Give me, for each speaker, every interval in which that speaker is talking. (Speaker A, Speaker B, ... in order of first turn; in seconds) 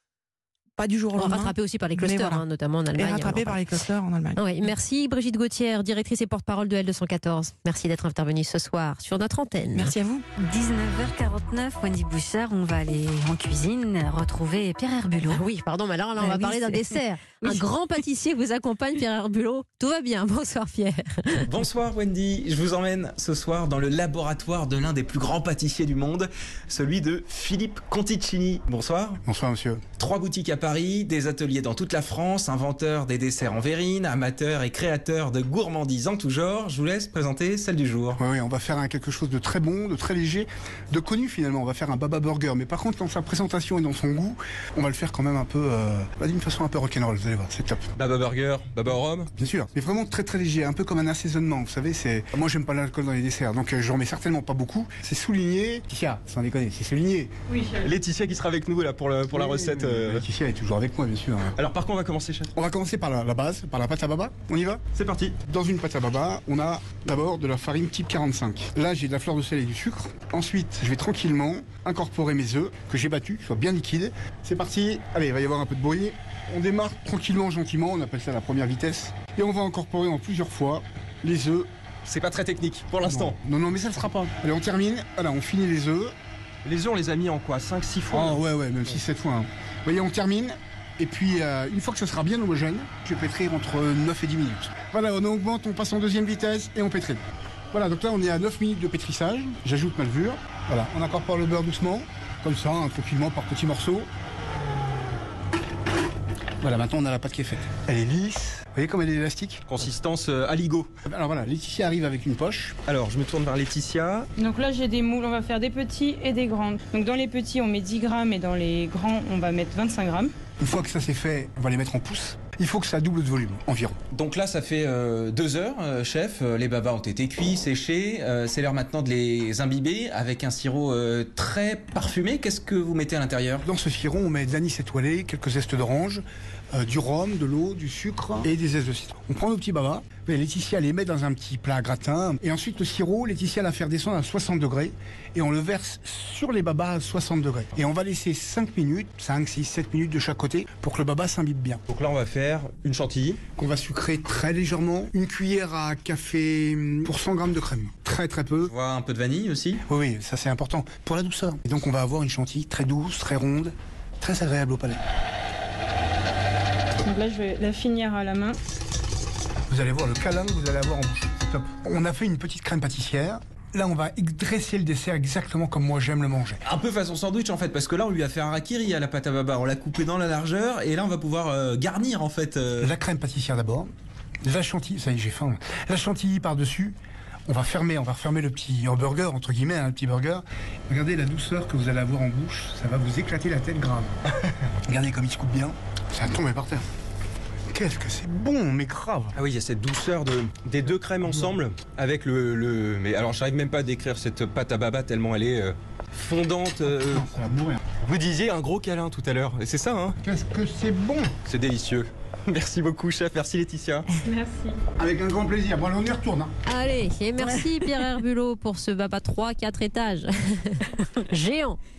Speaker A: 0.8-4.7, 9.7-10.2
Speaker B: 1.1-3.6, 4.3-9.9, 15.3-21.5, 216.6-221.8
Speaker C: 10.3-15.4, 16.4-16.8, 217.4-218.2
Speaker D: 21.4-29.2, 30.0-38.2, 47.9-49.3, 57.8-60.2, 61.5-62.5, 64.9-65.3, 82.0-83.4, 86.6-88.4, 109.7-110.9, 112.8-114.3, 124.1-133.7, 151.9-153.4, 158.7-159.8, 176.6-182.9, 199.3-207.4, 208.0-210.2, 211.4-214.1
Speaker E: 29.2-29.8, 38.2-47.9, 49.3-57.3, 59.3-61.5, 62.5-64.8, 65.4-81.7, 83.0-86.1, 88.1-104.1, 106.6-109.6, 111.0-112.8, 120.6-124.0, 133.6-151.8, 153.6-158.7, 159.8-165.0, 169.7-176.6, 182.8-183.9, 184.4-186.9, 187.5-194.1, 194.8-196.8, 197.7-199.4, 201.2-201.5, 207.0-207.8, 210.2-211.3, 215.0-216.5
Speaker F: 114.4-120.3, 167.0-168.6, 214.3-214.7